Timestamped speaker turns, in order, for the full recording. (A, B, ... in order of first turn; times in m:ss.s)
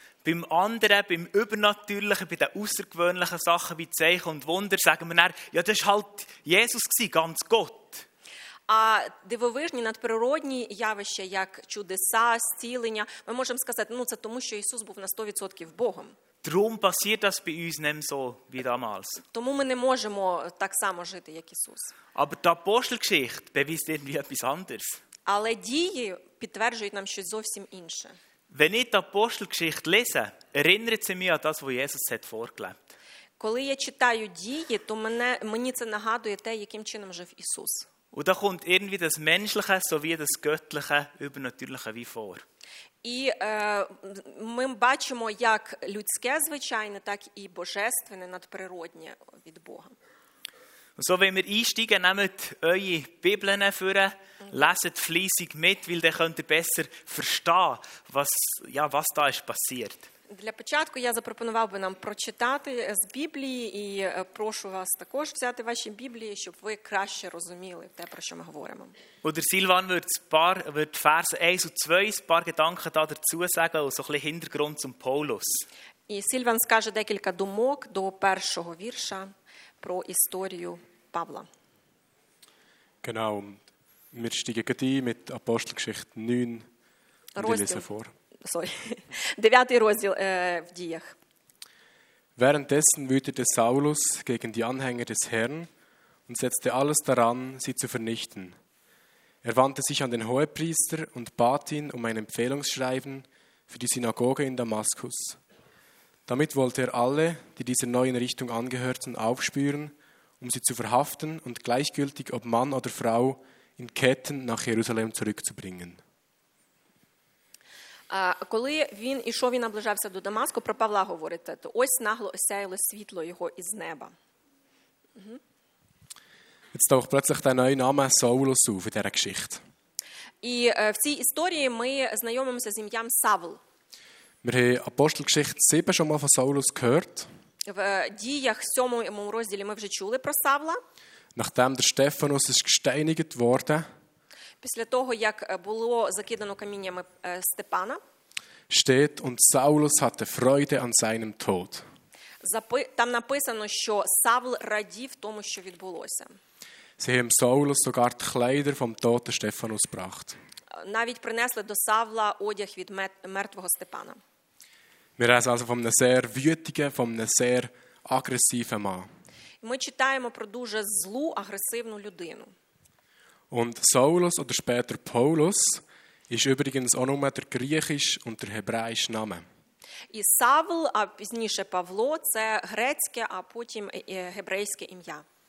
0:00.2-0:08.1 A
0:08.7-0:16.2 B
0:16.4-0:19.2 A
0:19.3-0:21.9 B
0:22.2-0:25.0 A
0:25.3-0:28.2 B
0:28.5-0:32.9 A
0:33.4-0:37.9 B
0:38.1-0:42.4 A
0:43.0-0:50.0 B
0:51.0-1:00.1 A
1:00.3-1:09.0 B
1:09.2-1:15.7 A
1:16.1-1:19.3 B
1:19.8-1:21.5 B
1:23.0-1:26.7 C
1:27.4-1:27.9 B
1:27.4-1:28.1 C
1:28.4-1:31.2 B
1:32.4-1:35.7 C
1:36.3-1:38.6 C
1:39.4-1:45.4 C
1:46.3-1:56.0 C
1:58.1-2:04.1 B
2:06.7-2:09.6 C
2:10.4-2:13.6 B
2:14.4-2:17.3 C
2:17.7-2:20.8 B
2:21.4-2:23.9 C
2:24.6-2:28.0 B
2:28.7-2:31.8 C
2:32.4-2:36.4 B
2:37.0-2:40.4 C
2:40.8-2:44.2 B
2:45.2-2:49.1 C
2:49.6-2:52.5 B
2:53.5-2:59.5 C
3:00.1-3:05.2 B